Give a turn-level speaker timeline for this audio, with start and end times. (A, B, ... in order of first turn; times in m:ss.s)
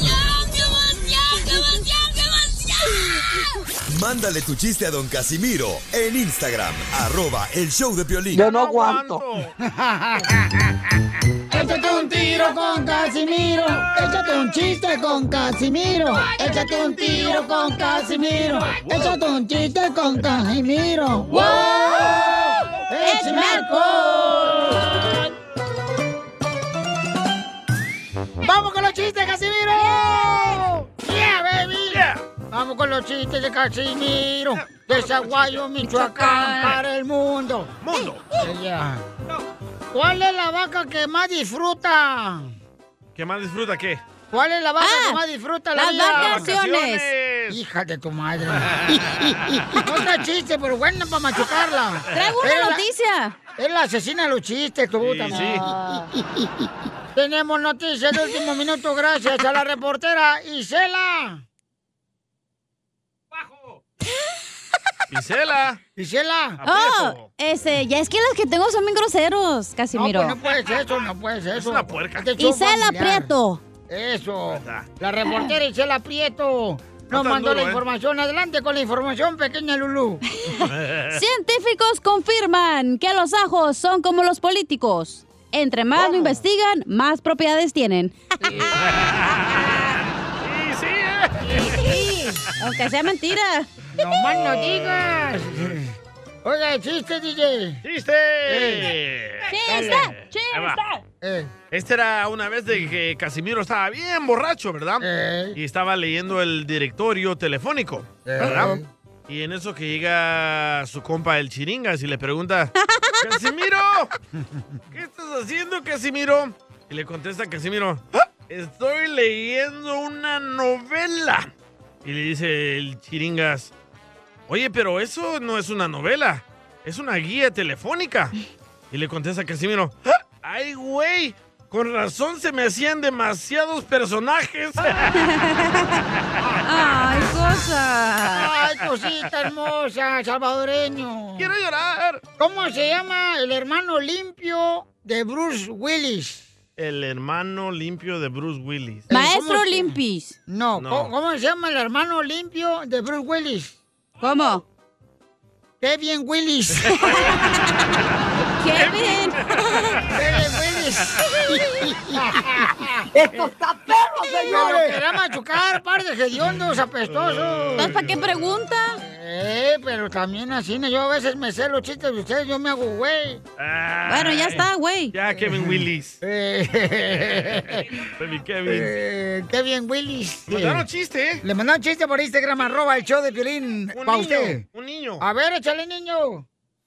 0:01.4-0:01.8 A
0:03.9-0:08.5 B
0:08.3-0:09.5 C
0:08.5-0:09.2 D
0:09.6-0:10.8 E
0:11.5-0:25.1 E
0:18.8-0:19.2 C
0:21.4-0:21.9 C
0:23.0-0:24.6 A
0:28.4-0:37.7 E
0:29.8-0:30.3 A
0:31.9-0:32.2 C
0:34.5-0:35.6 C
0:35.8-0:36.8 A
0:37.8-0:38.2 C
0:38.4-0:39.0 E
0:39.9-0:42.5 E
0:43.2-0:44.0 C
0:44.3-0:46.5 E
0:44.8-0:45.2 A
0:45.7-0:47.1 A
0:46.1-0:47.6 C
0:47.5-0:52.8 E
0:52.1-0:53.4 A
0:53.6-0:56.5 E
0:55.0-0:55.7 C
0:57.1-1:01.4 E
1:05.1-1:05.8 C
1:06.0-1:06.6 E
1:06.6-1:07.3 C
1:06.6-1:10.4 A
1:09.9-1:13.3 E
1:11.6-1:12.3 C
1:12.4-1:13.6 A
1:13.9-1:20.2 E
1:14.5-1:14.9 C
1:17.1-1:17.8 C
1:20.4-1:28.2 A
1:20.6-1:21.2 C
1:26.0-1:26.4 C
1:28.4-1:28.8 E
1:28.7-1:29.8 C
1:30.4-1:31.8 C
1:31.7-1:33.7 A
1:33.9-1:35.9 E
1:34.3-1:35.8 C
1:36.4-1:37.8 E
1:37.8-1:40.8 C
1:38.5-1:38.9 E
1:39.5-1:41.0 A
1:41.2-1:41.5 E
1:41.7-1:54.1 C
1:45.0-1:45.6 E
1:48.3-1:48.9 E
1:54.9-2:01.5 C
2:02.0-2:03.7 C
2:04.5-2:08.3 C
2:08.9-2:15.2 C
2:15.2-2:16.0 A
2:16.6-2:18.5 A
2:18.3-2:21.5 E
2:21.4-2:22.2 C
2:22.4-2:26.4 E
2:26.8-2:29.1 C
2:29.1-2:29.9 E
2:29.1-2:30.4 A
2:30.5-2:33.7 E
2:30.8-2:31.1 C
2:34.2-2:34.6 A
2:35.8-2:37.0 E
2:37.0-2:37.4 A
2:38.6-2:40.0 A
2:38.7-2:39.4 C
2:40.1-2:43.0 E
2:43.2-2:44.9 D
2:44.4-2:48.1 E
2:47.1-2:48.2 C
2:47.8-2:49.0 A
2:49.0-2:53.4 E
2:53.6-2:56.2 C
2:54.1-2:55.1 A
2:55.3-2:57.8 E
2:58.2-2:58.9 C
2:58.6-3:00.8 E
3:00.5-3:01.4 C
3:01.4-3:04.6 E
3:03.9-3:05.2 C
3:05.2-3:06.4 E